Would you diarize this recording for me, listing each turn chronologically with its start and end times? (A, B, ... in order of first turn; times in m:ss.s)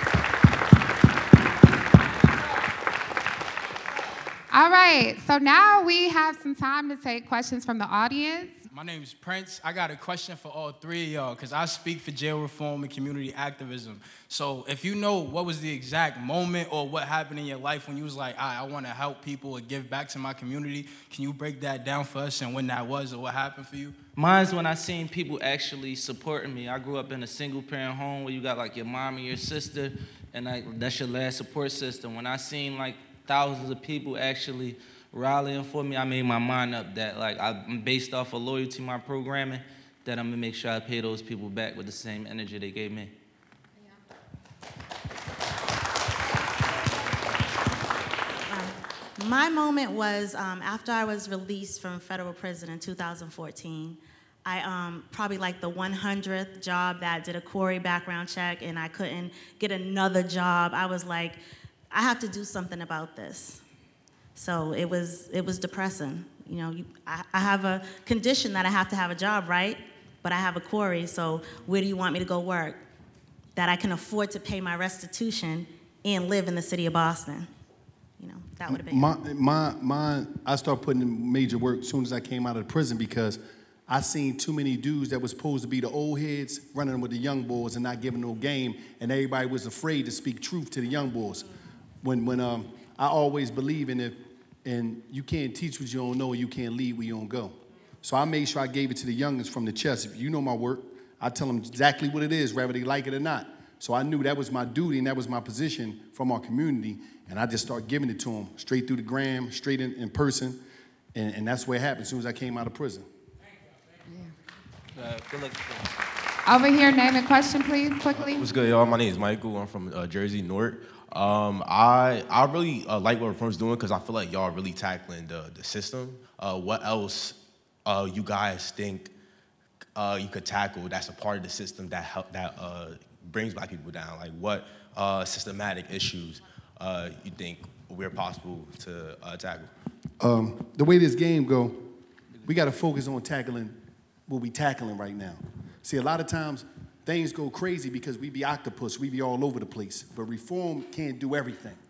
0:04.5-0:08.6 A
0:08.7-0:24.0 B
0:24.2-0:43.1 C
0:48.5-1:01.4 D
1:01.9-1:03.6 D
1:04.3-1:12.8 D
1:13.6-1:17.5 D
1:18.2-1:19.1 D
1:18.7-1:31.5 E
1:32.0-1:50.6 E
1:51.1-1:53.1 E
1:56.4-1:58.5 A
1:58.1-2:09.1 F
2:10.0-2:19.7 F
2:20.2-2:21.9 E
2:22.4-2:31.8 E